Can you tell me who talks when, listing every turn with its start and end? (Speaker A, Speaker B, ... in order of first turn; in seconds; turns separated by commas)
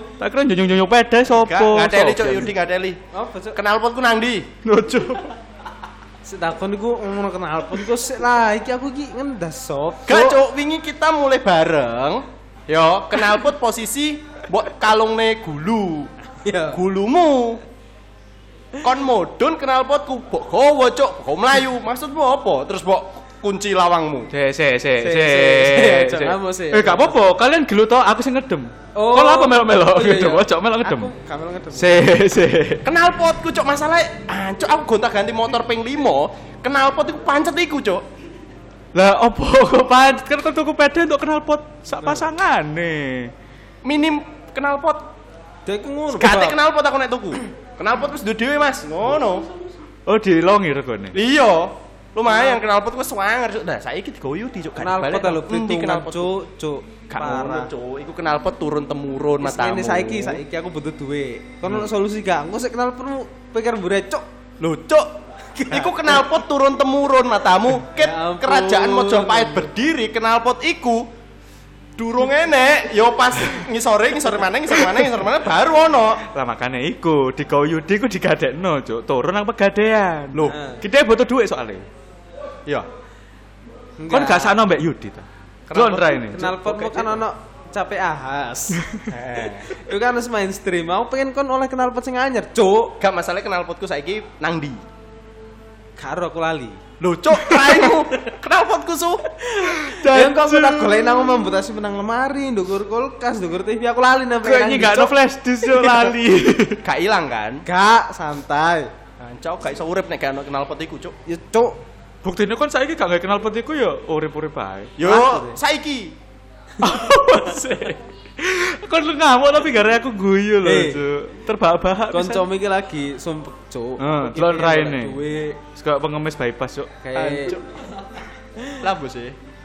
Speaker A: 0.2-2.5, Speaker B: 1.3-3.0, Speaker C: 3.1-3.6, Speaker B: 3.5-4.5, Speaker A: 4.6-5.3, Speaker C: 6.2-10.4, Speaker B: 10.1-16.1, Speaker C: 16.4-16.8, Speaker B: 16.7-17.6, Speaker B: 18.8-24.3, Speaker A: 24.3-31.1, Speaker C: 25.0-27.2, Speaker C: 28.9-32.1, Speaker A: 31.8-32.8, Speaker B: 32.8-38.0, Speaker A: 38.9-43.3, Speaker C: 42.0-42.2, Speaker B: 43.8-45.0, Speaker C: 45.7-46.6, Speaker B: 46.1-49.5, Speaker A: 50.1-51.2, Speaker B: 51.1-56.3, Speaker C: 52.3-52.6, Speaker C: 54.8-57.7, Speaker B: 57.1-60.4, Speaker C: 59.4-64.2, Speaker B: 64.6-65.1, Speaker C: 65.5-66.2, Speaker B: 65.7-71.1, Speaker C: 68.0-69.7, Speaker B: 72.0-76.2, Speaker A: 76.3-81.8, Speaker B: 80.3-80.6, Speaker C: 80.5-80.8, Speaker C: 84.0-84.6, Speaker A: 84.1-87.0, Speaker B: 85.7-86.0, Speaker C: 85.8-88.8, Speaker B: 89.1-89.8, Speaker C: 89.7-93.0, Speaker B: 93.0-94.8, Speaker C: 96.0-96.8, Speaker B: 97.0-99.2, Speaker C: 97.5-98.0, Speaker C: 99.6-106.2, Speaker A: 99.6-101.5, Speaker A: 104.4-106.8, Speaker B: 106.8-107.6, Speaker C: 107.7-108.9, Speaker B: 109.2-111.2, Speaker C: 111.3-111.8, Speaker A: 112.2-115.0, Speaker B: 115.0-116.2, Speaker C: 115.0-115.6, Speaker C: 116.8-118.0, Speaker A: 116.8-122.5, Speaker C: 120.6-121.0, Speaker C: 122.1-125.6, Speaker A: 124.0-126.9, Speaker C: 127.0-127.6, Speaker B: 127.2-127.6, Speaker B: 128.8-129.4